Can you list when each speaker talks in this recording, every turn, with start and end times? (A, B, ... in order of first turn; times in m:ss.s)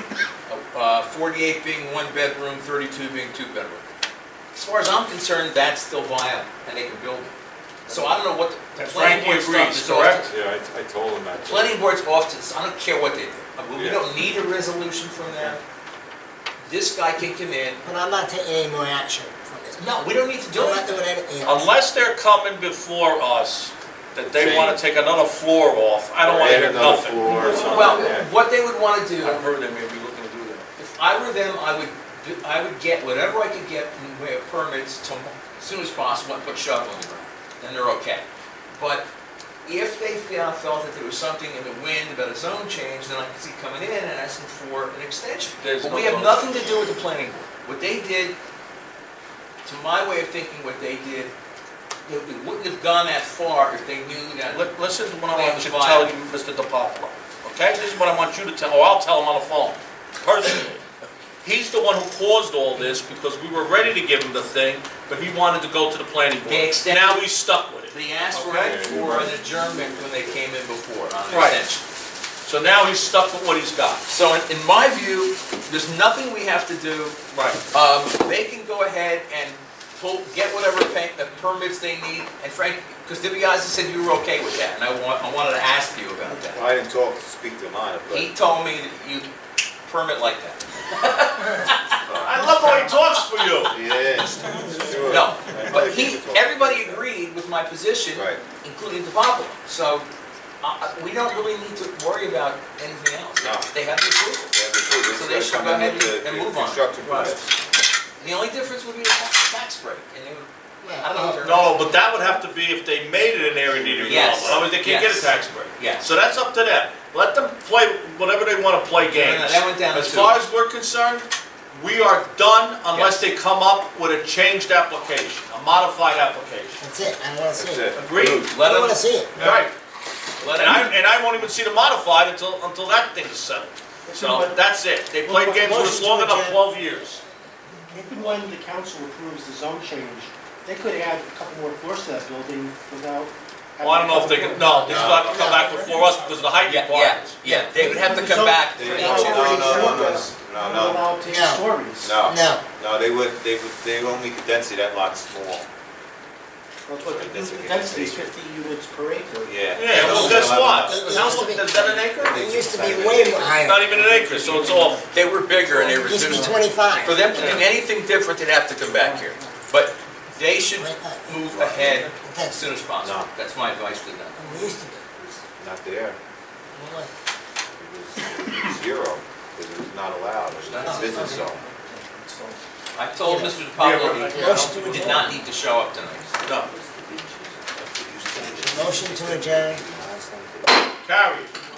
0:00.5-0:03.9 A
0:04.5-0:07.3 A
0:07.9-0:08.1 B
0:07.9-0:10.3 A
0:08.8-0:10.2 B
0:10.3-0:11.8 C
0:11.4-0:15.6 A
0:13.7-0:14.0 C
0:16.6-0:17.8 A
0:17.8-0:21.7 D
0:19.8-0:21.0 A
0:21.4-0:28.1 B
0:24.2-0:24.8 C
0:26.2-0:28.3 C
0:27.4-0:29.4 A
0:29.2-0:30.7 B
0:30.8-0:39.1 A
0:39.6-0:48.4 A
0:45.6-0:46.6 B
0:49.6-0:51.3 A
0:52.0-0:54.6 A
0:54.5-1:00.9 B
0:55.3-0:56.1 A
1:01.4-1:08.7 B
1:06.4-1:07.2 A
1:07.9-1:11.8 A
1:08.5-1:10.1 C
1:11.3-1:11.6 B
1:12.4-1:14.0 B
1:14.1-1:17.2 A
1:17.3-1:17.6 B
1:17.7-1:26.7 A
1:26.3-1:28.3 C
1:28.1-1:29.3 A
1:29.8-1:33.1 A
1:32.0-1:32.4 C
1:32.2-1:33.7 B
1:33.7-1:37.1 C
1:35.0-1:40.1 A
1:38.1-1:38.4 C
1:40.6-1:44.5 A
1:43.4-1:43.7 C
1:44.5-1:47.5 C
1:45.1-1:47.4 A
1:48.2-1:51.9 A
1:50.8-1:51.5 D
1:51.4-2:06.8 B
1:53.4-1:54.7 C
1:54.0-1:56.1 A
1:59.1-2:00.4 A
2:02.9-2:03.2 A
2:06.8-2:09.4 D
2:07.6-2:08.5 C
2:07.9-2:09.7 B
2:09.3-2:09.7 C
2:10.4-2:10.9 A
2:10.4-2:17.2 B
2:14.0-2:14.6 E
2:15.2-2:16.0 E
2:15.5-2:16.6 D
2:17.9-2:25.0 E
2:23.8-2:27.7 B
2:24.5-2:26.1 D
2:24.9-2:25.5 C
2:26.6-2:30.1 A
2:27.5-2:32.2 E
2:28.7-2:31.1 C
2:31.2-2:31.6 D
2:32.0-2:35.6 C
2:32.2-2:32.6 D
2:36.9-2:39.6 E
2:37.0-2:38.3 C
2:39.4-2:41.1 C
2:39.7-2:42.4 B
2:39.9-2:43.9 D
2:42.2-2:43.6 C
2:43.6-2:45.1 B
2:43.8-2:47.7 E
2:45.1-2:54.7 A
2:46.0-2:47.2 D
2:47.3-2:47.7 B
2:49.0-2:49.6 E
2:50.7-2:51.4 D
2:51.5-2:52.0 C
2:52.2-2:52.6 D
2:53.0-2:53.3 C
2:54.4-2:55.0 D
2:55.2-2:56.2 C
2:56.7-2:57.1 D
2:57.8-3:01.6 C
3:00.6-3:01.5 B
3:00.8-3:01.4 D
3:00.8-3:02.6 E
3:02.9-3:06.3 A
3:03.2-3:03.6 D
3:03.7-3:05.3 B
3:04.2-3:05.3 D
3:06.4-3:06.7 B
3:08.0-3:10.8 C
3:08.6-3:09.8 D
3:11.0-3:11.5 B